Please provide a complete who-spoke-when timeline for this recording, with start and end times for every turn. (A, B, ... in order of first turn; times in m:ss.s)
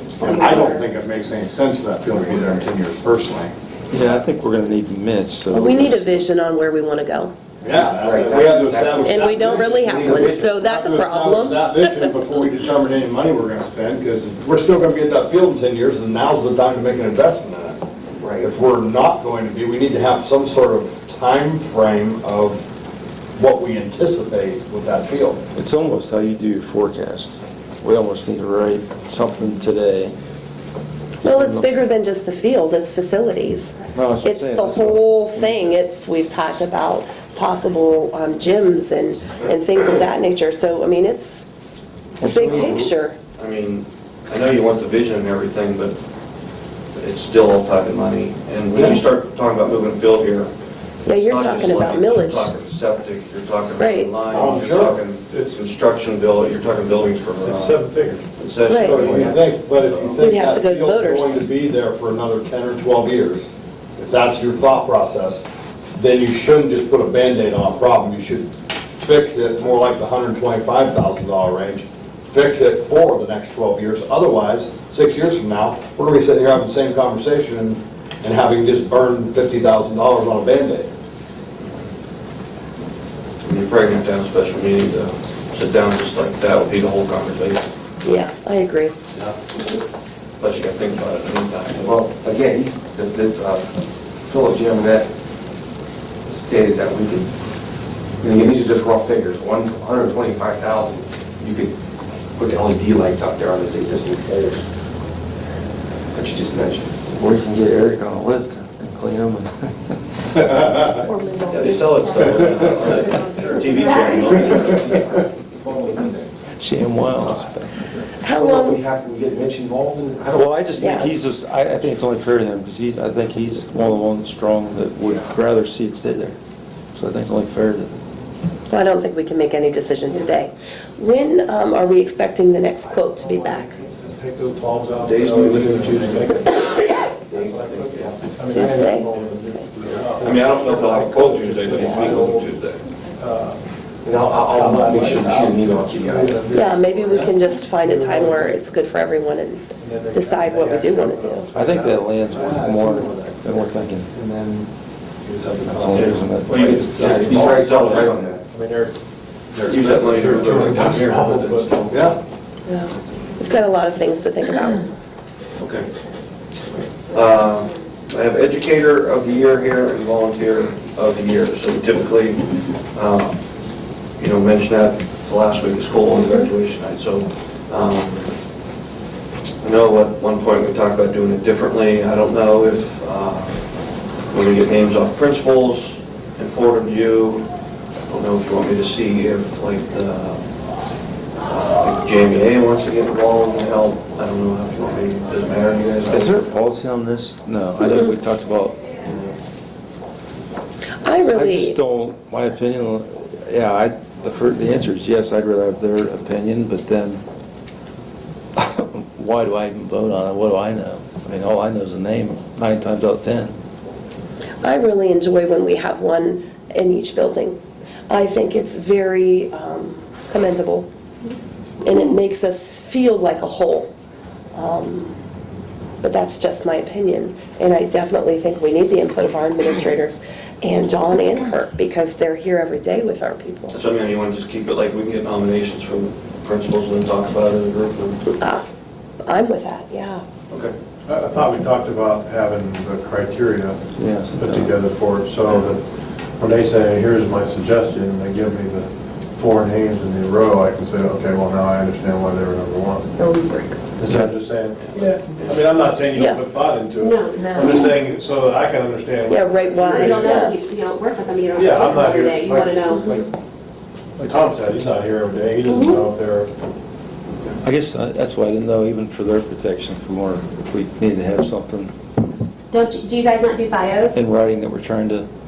0:00.2-0:03.5 A
0:00.2-0:00.8 B
0:03.9-0:06.2 C
0:05.5-0:07.3 B
0:07.6-0:17.8 A
0:07.6-0:10.4 D
0:09.0-0:12.2 B
0:18.2-0:18.5 D
0:18.4-0:22.6 A
0:23.4-0:25.4 A
0:25.5-0:30.1 C
0:31.2-0:31.7 C
0:31.2-0:41.2 B
0:33.9-0:35.6 C
0:42.2-0:42.9 C
0:42.2-0:43.2 B
0:42.3-0:42.8 E
0:43.4-0:46.0 E
0:47.0-0:50.5 E
0:51.0-0:52.5 B
0:51.1-0:57.8 E
0:53.8-0:54.1 B
0:54.3-0:55.0 A
0:54.3-0:55.6 F
0:57.4-0:58.2 F
0:58.4-1:00.2 E
0:58.7-0:59.2 B
0:58.7-1:05.4 A
1:00.2-1:01.4 B
1:06.0-1:20.9 A
1:23.4-1:27.7 E
1:28.0-1:29.0 B
1:30.4-1:32.0 E
1:31.8-1:35.1 D
1:36.2-1:37.3 D
1:38.2-1:41.8 D
1:42.4-1:44.6 D
1:46.1-1:47.0 D
1:47.1-1:50.8 C
1:51.5-1:54.9 E
1:52.4-1:52.8 D
1:53.7-1:54.3 G
1:54.2-2:00.6 D
1:56.6-1:57.7 C
1:58.2-1:58.8 B
2:00.3-2:06.4 C
2:00.8-2:01.1 B
2:06.9-2:08.0 C
2:08.7-2:13.8 B
2:13.2-2:16.7 F
2:15.0-2:16.6 E
2:17.3-2:18.4 D
2:17.3-2:22.5 F
2:18.5-2:19.6 B
2:20.2-2:22.8 E
2:23.2-2:23.6 F
2:24.0-2:26.5 D
2:24.3-2:28.6 F
2:26.5-2:31.5 B
2:29.8-2:32.7 F
2:31.5-2:34.1 C
2:32.3-2:33.6 A
2:34.1-2:34.7 A
2:35.2-2:38.9 F
2:35.7-2:37.6 C
2:35.8-2:38.4 D
2:36.5-2:38.2 E
2:39.6-2:42.1 E
2:39.7-2:41.8 F
2:41.9-2:42.2 A
2:42.6-2:44.8 B
2:45.6-2:45.9 E
2:47.1-2:53.4 E
2:54.2-2:58.3 E
2:59.6-3:03.6 E
3:04.3-3:07.5 E
3:08.1-3:10.4 E
3:11.4-3:16.5 E
3:16.1-3:19.3 C
3:17.8-3:18.1 B
3:21.0-3:21.8 B
3:21.3-3:27.2 C
3:28.6-3:33.5 C
3:34.6-3:40.9 B
3:41.8-3:43.9 B
3:44.5-3:45.1 B
3:46.0-3:53.8 B
3:53.7-3:58.2 E
3:58.4-3:58.6 B
3:59.2-4:00.2 B
4:01.1-4:03.8 F
4:04.0-4:04.8 C
4:04.3-4:05.8 F
4:06.4-4:13.1 F
4:14.0-4:20.4 F
4:14.0-4:14.3 C
4:14.8-4:15.9 E
4:16.2-4:16.4 B
4:17.0-4:17.6 G
4:19.3-4:20.6 B
4:19.8-4:23.1 G
4:21.5-4:23.3 F
4:24.2-4:26.5 F
4:25.7-4:26.0 G
4:27.6-4:31.9 C
4:32.7-4:34.2 G
4:34.1-4:35.3 C